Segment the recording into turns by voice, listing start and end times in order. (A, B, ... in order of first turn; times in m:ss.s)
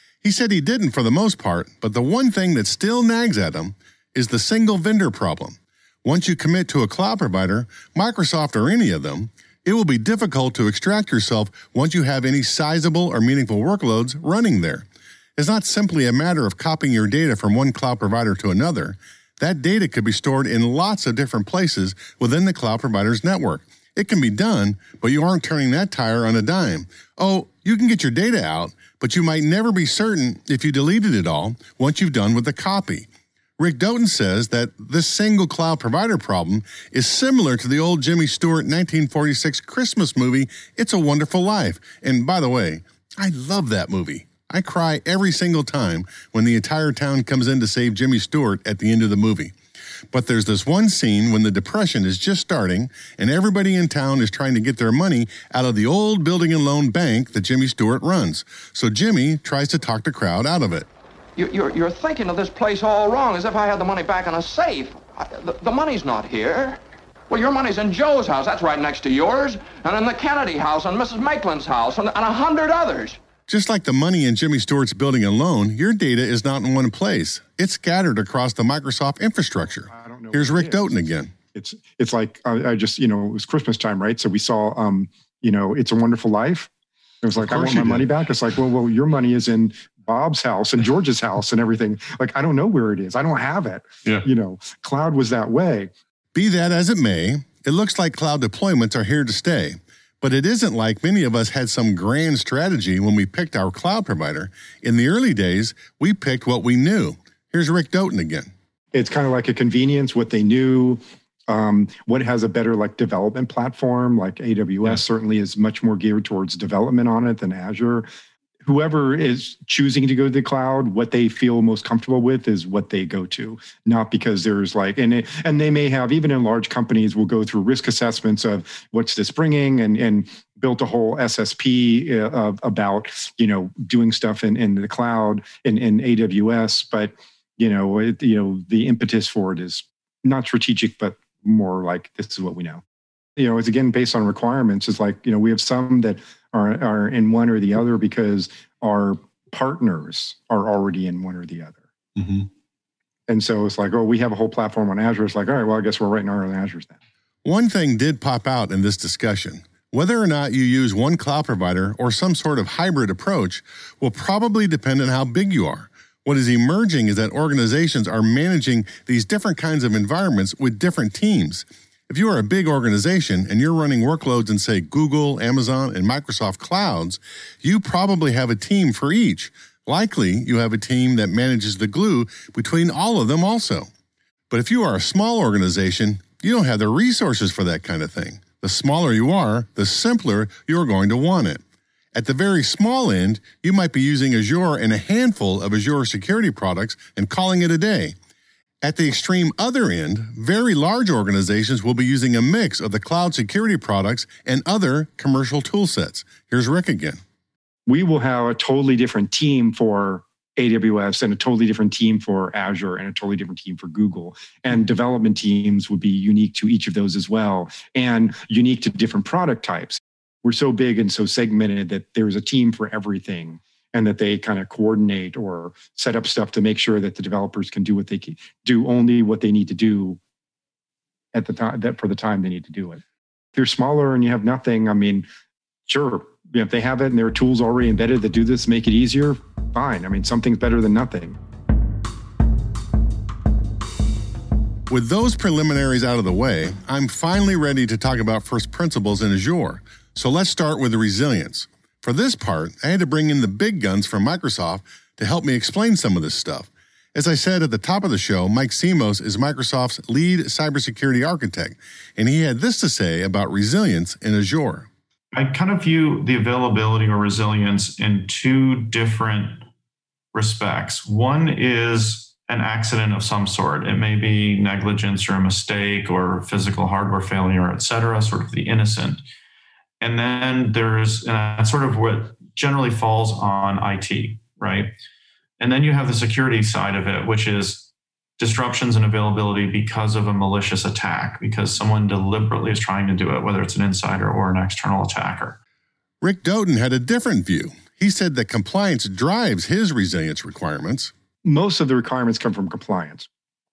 0:00.2-0:33.1 A
0:33.6-0:49.5 A
0:50.1-1:00.9 A
1:01.4-1:13.2 B
1:13.5-1:21.3 A
1:19.9-1:20.9 C
1:21.5-1:26.7 C
1:27.2-1:35.9 C
1:27.4-1:28.0 A
1:36.3-1:48.5 A
1:48.9-1:58.0 C
1:58.6-2:22.8 C
2:23.4-2:32.4 C
2:33.3-2:36.9 C
2:37.4-3:03.9 A
3:04.5-3:11.6 A
3:12.1-3:18.2 A
3:18.8-3:27.2 A
3:27.8-3:50.2 C
3:51.3-3:53.0 C
3:53.6-3:55.2 C
3:55.9-4:01.4 C
4:04.9-4:24.9 A
4:25.3-4:29.6 D
4:30.3-4:39.2 D
4:40.0-4:44.9 D
4:45.6-4:55.6 D
4:56.2-5:01.1 A
5:01.4-5:03.2 C